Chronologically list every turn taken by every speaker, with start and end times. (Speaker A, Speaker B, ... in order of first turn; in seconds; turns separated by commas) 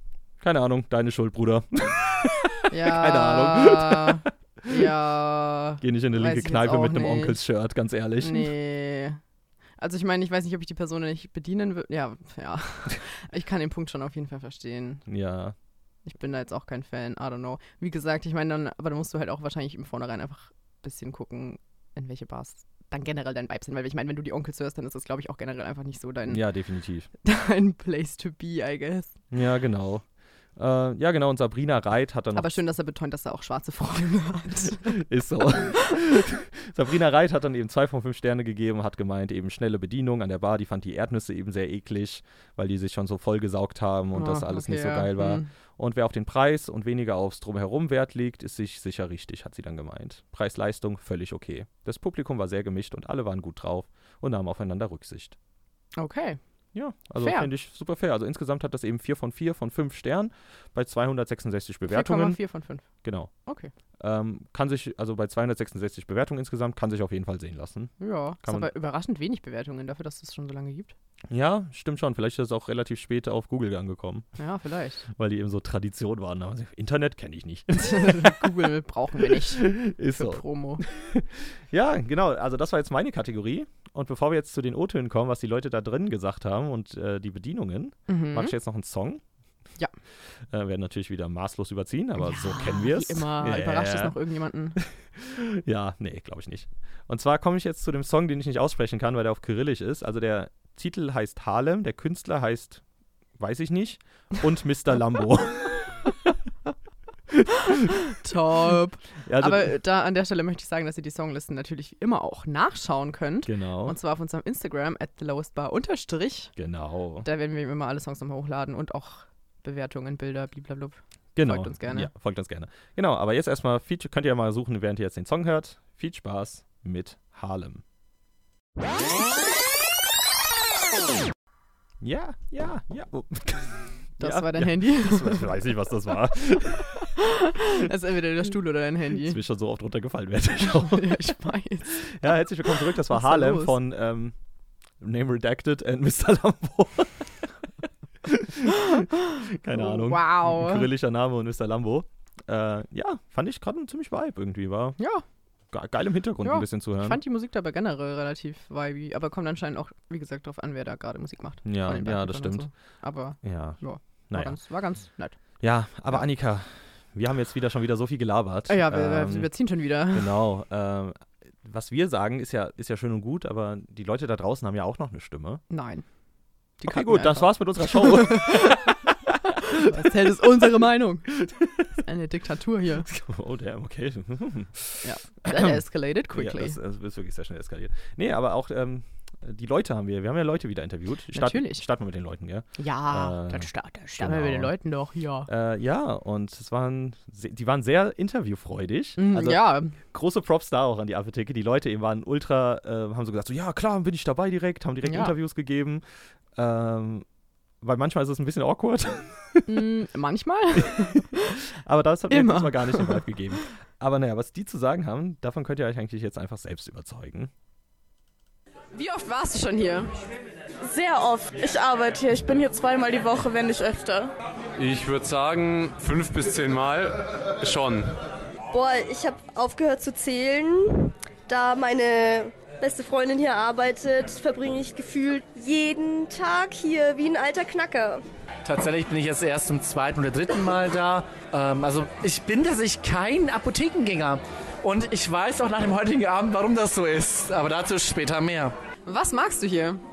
Speaker A: 0.4-4.9, Speaker B: 2.7-7.4, Speaker A: 5.8-8.5, Speaker B: 8.2-9.2, Speaker B: 9.8-15.0, Speaker A: 15.1-15.6, Speaker B: 16.1-26.4, Speaker A: 26.3-27.1, Speaker B: 27.2-29.2, Speaker A: 29.3-30.1, Speaker A: 30.6-32.6, Speaker B: 32.4-35.0, Speaker A: 34.8-55.4, Speaker B: 44.1-45.5, Speaker B: 56.0-56.4, Speaker A: 56.7-62.4, Speaker B: 57.2-57.5, Speaker B: 61.9-62.9, Speaker A: 63.0-63.3, Speaker B: 63.5-63.7, Speaker A: 64.0-68.7, Speaker B: 68.0-70.9, Speaker A: 71.3-74.3, Speaker B: 74.4-75.0, Speaker A: 75.2-78.7, Speaker B: 77.7-80.8, Speaker A: 79.2-89.2, Speaker B: 88.1-88.5, Speaker A: 90.5-94.2, Speaker B: 92.2-94.8, Speaker A: 94.8-102.8, Speaker A: 103.4-106.1, Speaker A: 107.3-107.8, Speaker B: 108.1-116.5, Speaker A: 109.3-109.7, Speaker A: 113.5-114.0, Speaker A: 116.6-117.3, Speaker B: 117.2-122.1, Speaker A: 121.4-127.8, Speaker A: 132.0-137.1, Speaker B: 134.2-135.5, Speaker B: 137.2-139.4, Speaker A: 139.2-141.4, Speaker B: 140.7-142.2, Speaker A: 141.9-144.3, Speaker B: 142.7-143.7, Speaker A: 145.0-147.5, Speaker A: 148.2-155.0, Speaker B: 149.7-150.9, Speaker B: 155.0-155.2, Speaker A: 155.7-157.2, Speaker B: 156.4-165.4, Speaker A: 161.7-162.7, Speaker A: 163.4-164.6, Speaker A: 165.6-169.5, Speaker B: 168.7-170.3, Speaker A: 170.1-175.6, Speaker B: 175.7-176.0, Speaker B: 176.8-178.9, Speaker A: 176.9-178.9, Speaker B: 179.5-181.3, Speaker A: 179.7-180.5, Speaker A: 181.4-181.9, Speaker B: 182.0-183.1, Speaker A: 183.0-185.8, Speaker B: 185.0-186.8, Speaker A: 186.3-194.7, Speaker B: 191.3-191.8, Speaker B: 192.8-195.5, Speaker A: 195.5-206.0, Speaker B: 199.2-200.0, Speaker B: 205.1-205.3, Speaker A: 206.6-207.2, Speaker A: 207.8-209.8, Speaker B: 209.7-211.5, Speaker A: 210.8-217.5, Speaker B: 212.3-213.2, Speaker B: 218.9-220.1, Speaker C: 220.8-224.3, Speaker D: 224.8-228.1, Speaker E: 228.7-238.2, Speaker F: 238.7-248.7, Speaker B: 249.1-250.0